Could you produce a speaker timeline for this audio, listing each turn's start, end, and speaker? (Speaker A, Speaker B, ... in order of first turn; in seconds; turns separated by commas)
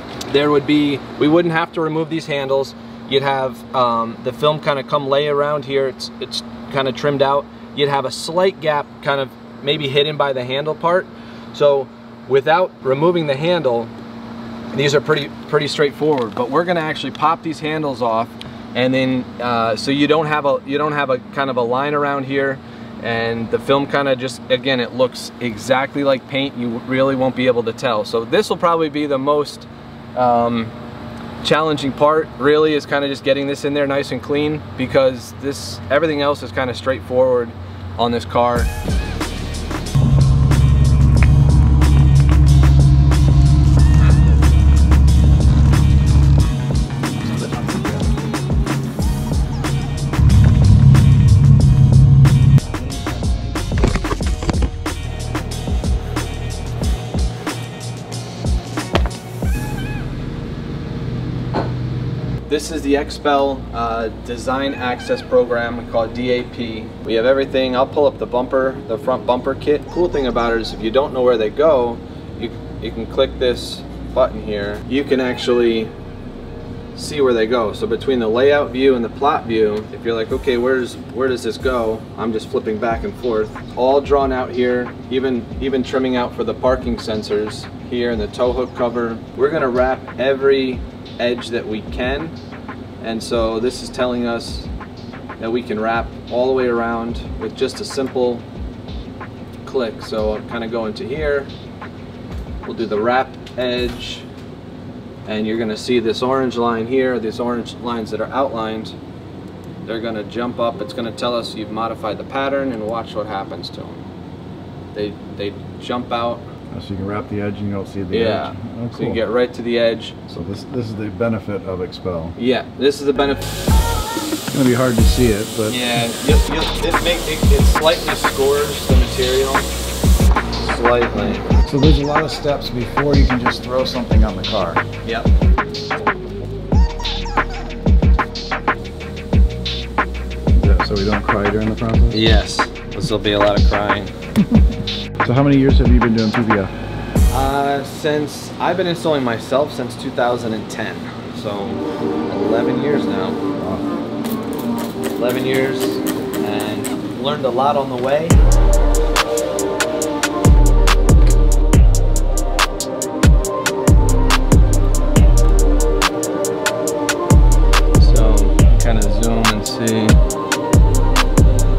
Speaker A: 0.3-13.9, Speaker A: 14.7-30.7, Speaker A: 31.4-38.7, Speaker A: 62.5-75.9, Speaker A: 76.9-92.3, Speaker A: 93.0-94.7, Speaker A: 95.4-98.4, Speaker A: 99.6-101.5, Speaker A: 102.6-104.3, Speaker A: 105.2-108.9, Speaker A: 109.8-114.0, Speaker A: 114.9-116.5, Speaker B: 116.7-119.2, Speaker A: 118.1-120.2, Speaker B: 120.3-122.3, Speaker A: 122.4-123.5, Speaker B: 124.5-125.8, Speaker A: 125.7-129.7, Speaker A: 130.6-131.5, Speaker B: 131.3-134.8, Speaker A: 135.0-135.3, Speaker B: 140.5-142.2, Speaker A: 142.1-144.1, Speaker B: 145.2-146.7, Speaker A: 147.3-153.4, Speaker B: 153.6-153.9, Speaker A: 155.2-158.4, Speaker A: 168.0-170.2